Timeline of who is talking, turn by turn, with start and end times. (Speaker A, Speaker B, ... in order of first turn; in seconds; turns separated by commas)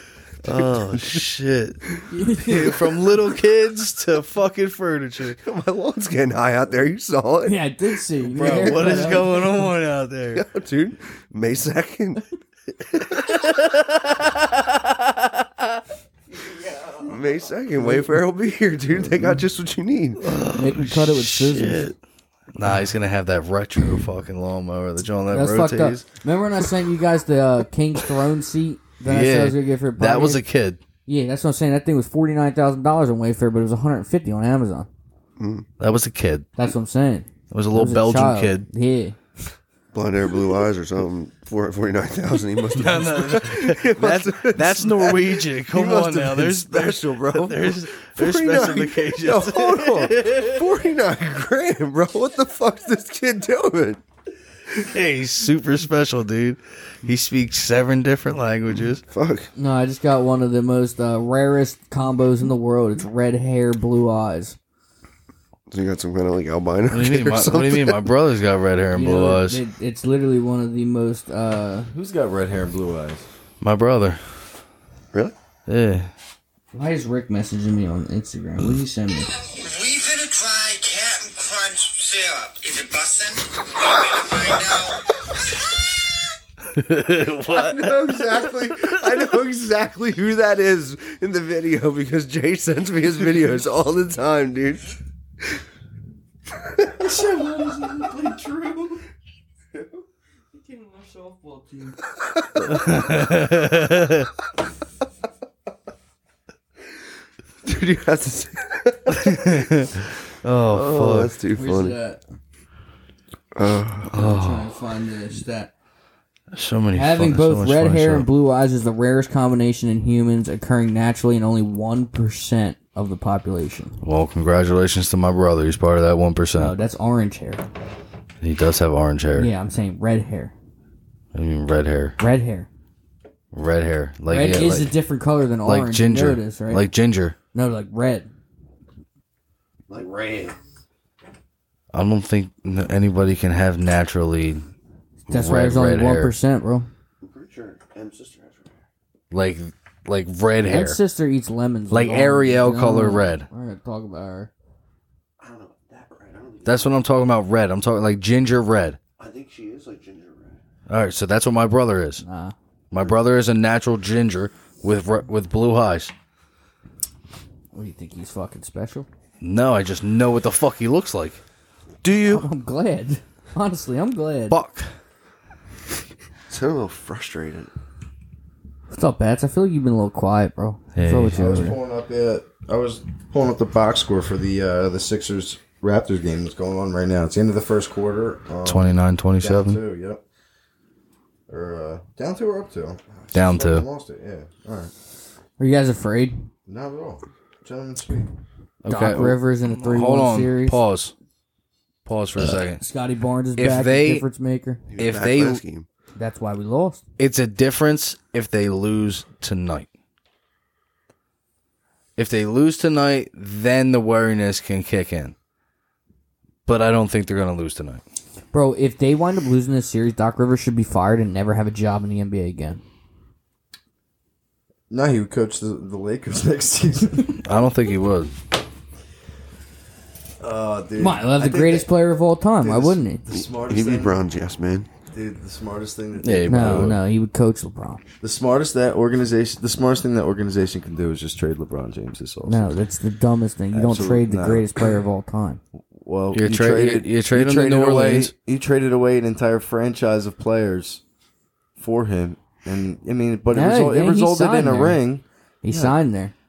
Speaker A: 0.4-5.4, Speaker B: 0.5-1.2, Speaker C: 2.1-2.8, Speaker B: 5.4-7.7, Speaker C: 7.4-9.7, Speaker A: 8.3-10.4, Speaker B: 8.4-9.3, Speaker B: 10.3-12.3, Speaker B: 12.8-13.5, Speaker A: 13.2-15.4, Speaker B: 17.0-20.2, Speaker A: 20.2-21.9, Speaker C: 20.5-21.9, Speaker A: 22.6-26.1, Speaker C: 25.3-30.4, Speaker A: 29.1-30.8, Speaker C: 31.1-34.9, Speaker B: 35.4-35.7, Speaker A: 35.8-36.5, Speaker C: 36.6-39.2, Speaker A: 37.5-38.7, Speaker B: 39.9-54.0, Speaker A: 42.7-50.6, Speaker A: 54.8-59.0, Speaker B: 59.1-59.5, Speaker C: 59.6-64.6, Speaker B: 65.7-68.0, Speaker A: 66.9-69.6, Speaker C: 68.9-71.9, Speaker D: 71.9-73.2, Speaker A: 73.6-74.2, Speaker A: 75.7-76.1, Speaker C: 76.7-79.3, Speaker E: 79.4-85.8, Speaker A: 86.7-88.2, Speaker B: 87.3-94.9, Speaker B: 96.7-99.0, Speaker C: 97.6-98.3, Speaker C: 100.7-101.9, Speaker B: 102.4-102.9, Speaker A: 102.7-104.3, Speaker B: 107.6-109.7, Speaker A: 109.1-111.3, Speaker B: 110.7-112.0, Speaker C: 111.5-112.2, Speaker B: 113.5-114.1, Speaker A: 114.1-114.7, Speaker C: 114.1-115.7, Speaker A: 116.5-118.3, Speaker C: 116.9-124.0, Speaker A: 124.0-126.8, Speaker C: 126.6-127.6, Speaker A: 128.4-129.5, Speaker C: 129.3-130.5, Speaker A: 131.3-132.2, Speaker C: 132.2-132.7, Speaker A: 133.5-135.0, Speaker C: 134.3-136.9, Speaker A: 135.7-137.4, Speaker C: 137.5-138.3, Speaker B: 139.9-140.6, Speaker A: 141.9-144.7, Speaker A: 145.3-146.3, Speaker C: 145.3-146.9, Speaker B: 147.2-148.7, Speaker A: 149.3-151.0, Speaker C: 150.7-154.5, Speaker A: 151.9-153.5, Speaker B: 155.4-157.0, Speaker A: 156.7-159.0, Speaker B: 159.2-160.6, Speaker A: 160.9-162.2, Speaker C: 162.2-162.5, Speaker A: 162.9-166.1, Speaker C: 167.7-169.1, Speaker A: 169.4-171.4, Speaker B: 172.0-172.5, Speaker C: 172.2-174.6, Speaker A: 174.5-174.9, Speaker B: 176.5-177.7, Speaker C: 178.9-181.8, Speaker A: 180.9-181.5, Speaker D: 181.3-190.2, Speaker A: 188.7-189.8, Speaker D: 191.5-194.9, Speaker A: 193.3-193.9, Speaker C: 195.6-196.5, Speaker D: 196.7-198.3, Speaker A: 198.8-201.1, Speaker C: 198.9-200.8, Speaker A: 202.1-202.8, Speaker C: 202.8-204.8, Speaker A: 203.6-204.2, Speaker B: 204.9-205.9, Speaker A: 205.0-205.6, Speaker C: 206.2-207.0, Speaker A: 207.2-209.9, Speaker A: 212.2-215.3, Speaker A: 216.7-218.0, Speaker C: 218.5-222.8, Speaker D: 224.9-227.4, Speaker A: 227.4-228.3, Speaker D: 230.4-231.9, Speaker C: 231.0-233.2, Speaker D: 232.6-234.2, Speaker B: 233.3-234.9, Speaker D: 235.1-237.0, Speaker A: 236.2-237.0, Speaker C: 236.5-238.0, Speaker D: 238.2-242.7, Speaker C: 242.4-245.6, Speaker D: 243.7-244.7, Speaker D: 245.9-251.0, Speaker A: 246.3-248.3, Speaker D: 251.8-256.0, Speaker C: 253.5-255.0, Speaker C: 255.6-256.3